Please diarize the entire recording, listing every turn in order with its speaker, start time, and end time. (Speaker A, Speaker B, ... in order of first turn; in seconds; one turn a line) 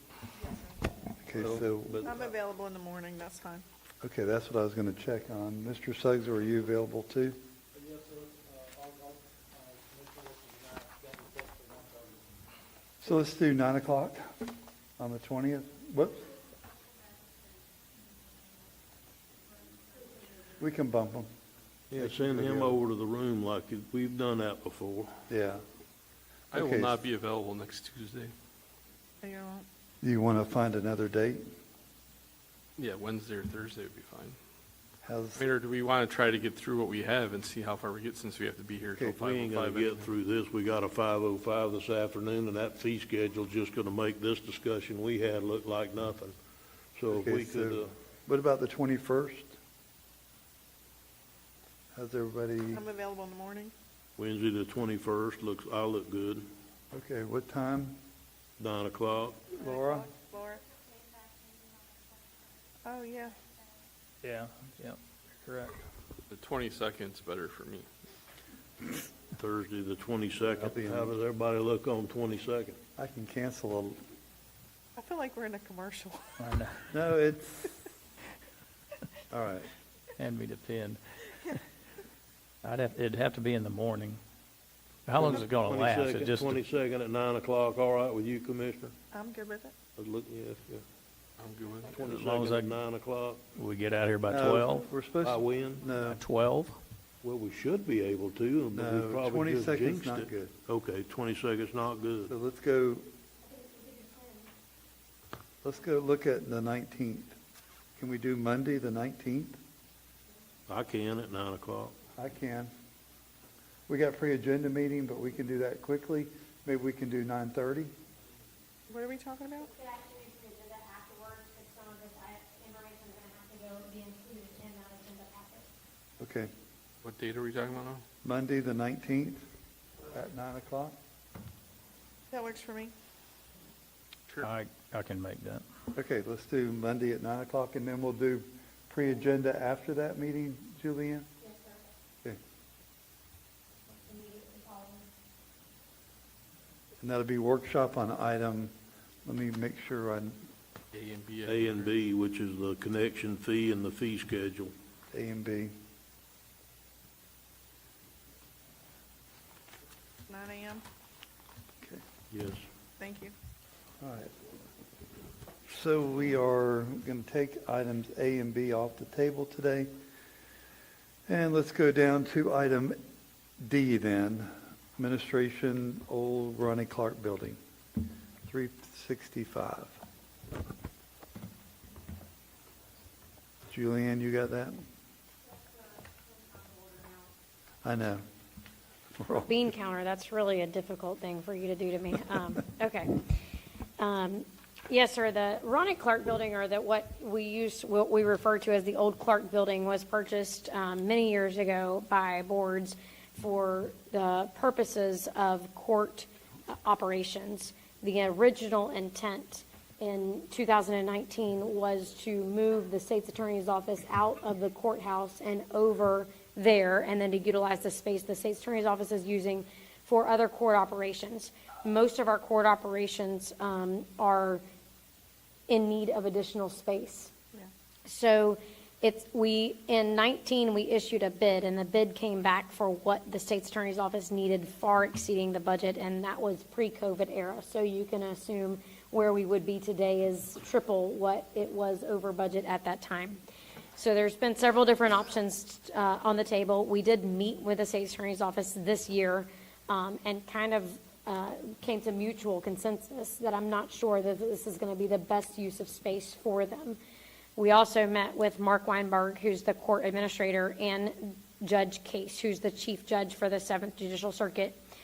Speaker A: 0.4-0.8
Speaker B: 1.2-2.0
Speaker C: 1.4-2.3
Speaker A: 2.0-3.6
Speaker B: 4.0-7.4
Speaker D: 7.8-12.2
Speaker B: 13.0-14.5
Speaker B: 15.0-16.3
Speaker B: 20.6-21.3
Speaker C: 21.9-25.2
Speaker B: 22.0-22.8
Speaker B: 25.3-25.6
Speaker E: 26.5-28.3
Speaker B: 26.5-27.0
Speaker A: 29.2-29.7
Speaker B: 30.0-31.5
Speaker E: 32.8-34.4
Speaker B: 35.0-35.5
Speaker E: 35.4-40.1
Speaker B: 39.0-39.3
Speaker C: 39.1-46.4
Speaker C: 47.0-47.9
Speaker B: 47.1-49.5
Speaker B: 51.9-52.9
Speaker A: 52.7-53.7
Speaker C: 54.2-56.5
Speaker B: 56.9-58.0
Speaker C: 58.6-59.4
Speaker B: 59.5-60.1
Speaker A: 59.6-60.6
Speaker A: 62.8-63.4
Speaker F: 64.2-65.8
Speaker E: 66.3-67.9
Speaker C: 69.3-72.8
Speaker B: 70.5-71.1
Speaker B: 73.0-74.0
Speaker A: 75.0-76.3
Speaker F: 76.4-76.8
Speaker B: 76.9-77.7
Speaker B: 79.3-79.7
Speaker F: 80.2-81.6
Speaker F: 82.6-84.2
Speaker F: 85.1-86.6
Speaker C: 85.2-89.0
Speaker A: 89.1-89.7
Speaker C: 90.0-90.8
Speaker E: 91.4-91.9
Speaker C: 91.9-93.4
Speaker F: 92.0-92.8
Speaker F: 93.5-94.9
Speaker B: 94.3-96.2
Speaker C: 95.2-95.8
Speaker F: 96.0-96.8
Speaker C: 97.2-102.3
Speaker B: 98.8-100.5
Speaker B: 102.3-103.1
Speaker G: 103.4-104.5
Speaker B: 105.6-107.3
Speaker B: 108.0-109.6
Speaker C: 110.7-111.9
Speaker B: 112.2-112.7
Speaker B: 113.9-117.9
Speaker A: 118.9-119.7
Speaker G: 119.7-125.7
Speaker B: 126.2-126.5
Speaker E: 127.0-128.1
Speaker B: 128.2-129.4
Speaker B: 130.1-130.9
Speaker A: 132.3-132.9
Speaker E: 134.3-134.5
Speaker F: 134.4-135.6
Speaker B: 135.9-141.3
Speaker G: 141.4-141.8
Speaker G: 143.9-145.1
Speaker B: 147.0-148.7
Speaker B: 149.2-150.5
Speaker E: 150.9-151.9
Speaker C: 151.5-154.7
Speaker B: 155.1-155.7
Speaker A: 160.3-160.8
Speaker C: 162.3-162.7
Speaker A: 163.0-163.3
Speaker B: 164.0-164.3
Speaker B: 165.7-169.9
Speaker B: 171.3-173.0
Speaker B: 173.6-177.6
Speaker B: 178.5-180.0
Speaker B: 183.7-184.8
Speaker G: 185.5-187.3
Speaker B: 187.8-188.2
Speaker B: 189.2-189.7
Speaker G: 189.4-193.2
Speaker G: 194.0-224.6
Speaker G: 225.7-227.3
Speaker G: 228.1-243.4
Speaker G: 244.0-257.0
Speaker G: 257.6-264.8